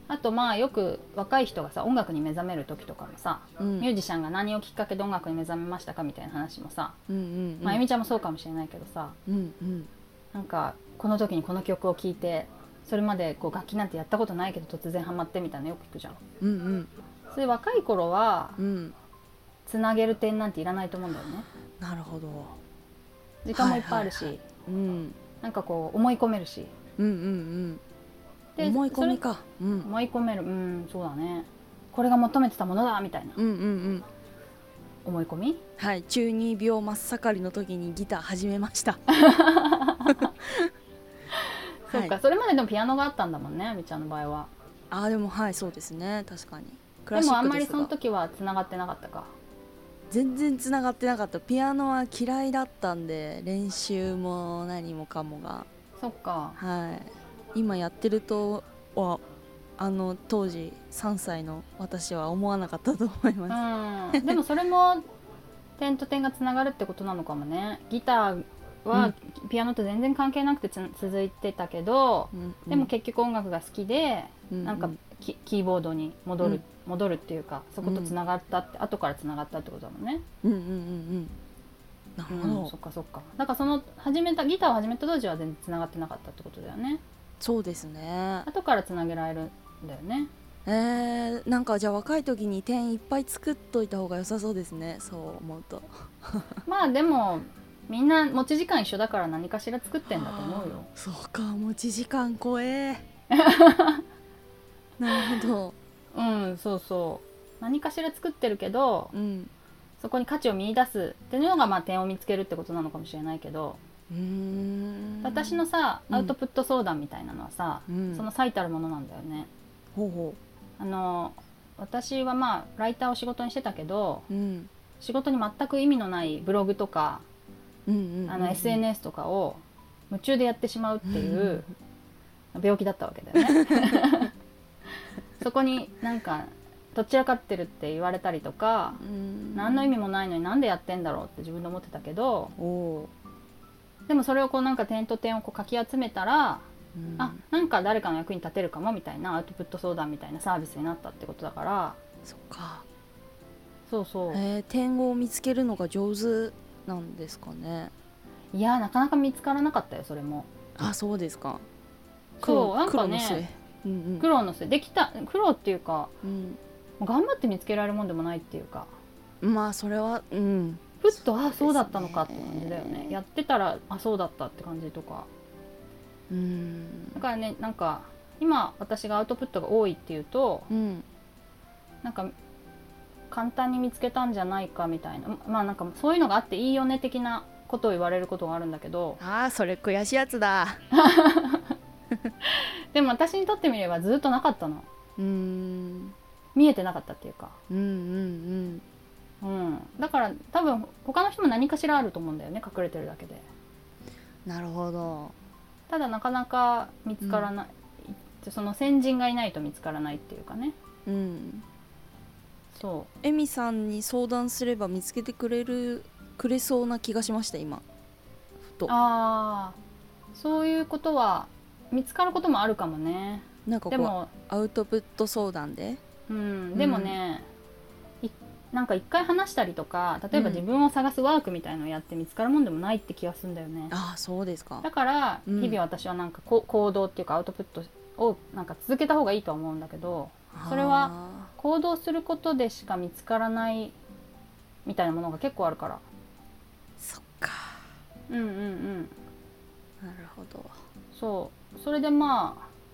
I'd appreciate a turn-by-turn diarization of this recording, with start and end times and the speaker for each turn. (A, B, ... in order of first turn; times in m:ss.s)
0:00.1-0:07.0 A
0:03.6-0:03.9 B
0:07.1-0:07.8 B
0:07.6-0:09.2 A
0:09.3-0:09.9 B
0:10.3-0:16.2 A
0:16.4-0:16.9 B
0:17.3-0:18.6 A
0:18.6-0:19.0 B
0:19.7-0:21.5 A
0:21.8-0:22.6 B
0:23.4-0:24.4 A
0:23.5-0:25.2 B
0:25.4-0:26.7 A
0:27.0-0:27.8 B
0:28.6-0:29.2 A
0:28.6-0:29.9 B
0:29.8-0:33.4 A
0:33.4-0:34.1 B
0:35.0-0:35.6 A
0:35.8-0:39.0 B
0:39.1-0:40.3 A
0:40.1-0:40.7 B
0:41.9-0:44.5 A
0:41.9-0:42.2 B
0:44.9-0:47.9 B
0:47.1-0:49.3 A
0:50.1-0:55.7 B
0:56.0-0:56.6 A
0:56.6-0:59.2 B
0:59.8-1:03.6 B
1:03.5-1:05.0 A
1:04.1-1:04.4 B
1:05.8-1:20.2 A
1:12.3-1:12.9 B
1:14.5-1:14.9 B
1:17.8-1:18.2 B
1:20.4-1:21.3 B
1:22.2-1:22.7 B
1:22.3-1:27.0 A
1:27.4-1:28.5 B
1:28.5-1:30.3 A
1:30.7-1:36.6 B
1:36.7-1:40.9 A
1:40.1-1:43.0 B
1:43.3-1:44.0 A
1:45.0-1:45.8 B
1:46.1-1:49.1 A
1:49.1-1:49.5 B
1:50.0-1:53.8 A
1:54.1-1:56.3 B
1:55.2-1:59.5 A
1:57.9-1:58.3 B
2:00.0-2:00.4 B
2:00.8-2:04.3 A
2:04.3-2:04.7 B
2:05.0-2:07.2 A
2:07.9-2:08.8 B
2:08.3-2:11.7 A
2:11.1-2:11.6 B
2:12.5-2:14.3 A
2:13.4-2:14.0 B
2:15.4-2:19.0 A
2:19.0-2:19.9 B
2:19.6-2:22.5 A
2:22.6-2:23.1 B
2:24.1-2:26.6 A
2:27.0-2:27.4 B
2:27.2-2:32.0 A
2:32.2-2:32.8 B
2:33.9-2:34.4 A
2:34.3-2:37.9 B
2:38.5-2:40.5 A
2:40.8-2:41.6 B
2:42.4-2:43.4 A
2:42.4-2:44.3 B
2:44.2-2:46.1 A
2:46.2-2:46.6 B
2:47.0-2:48.9 A
2:49.4-2:53.1 B
2:51.0-2:55.3 A
2:56.3-2:57.2 B
2:57.1-3:00.7 A
3:00.7-3:01.0 B
3:02.0-3:02.3 A
3:03.3-3:09.2 A
3:09.2-3:10.8 B
3:10.9-3:11.7 A
3:12.4-3:14.9 A
3:15.2-3:16.2 B
3:16.6-3:17.6 A
3:17.7-3:18.8 B
3:19.4-3:23.4 A
3:24.5-3:25.4 B
3:25.9-3:30.8 A
3:27.2-3:27.5 B
3:31.1-3:31.6 B
3:32.7-3:33.1 A
3:33.2-3:37.8 B
3:38.6-3:38.9 B
3:38.9-3:39.8 A
3:40.3-3:44.3 A
3:43.7-3:46.0 B
3:46.3-3:47.5 A
3:46.8-3:47.2 B
3:48.2-3:54.0 A
3:50.3-3:50.6 B
3:53.9-3:54.9 B
3:54.8-4:04.0 A
3:55.5-3:55.8 B
4:00.5-4:01.5 B
4:04.8-4:06.0 A
4:07.0-4:07.8 B
4:08.3-4:09.1 A
4:10.0-4:10.7 B
4:11.1-4:12.7 A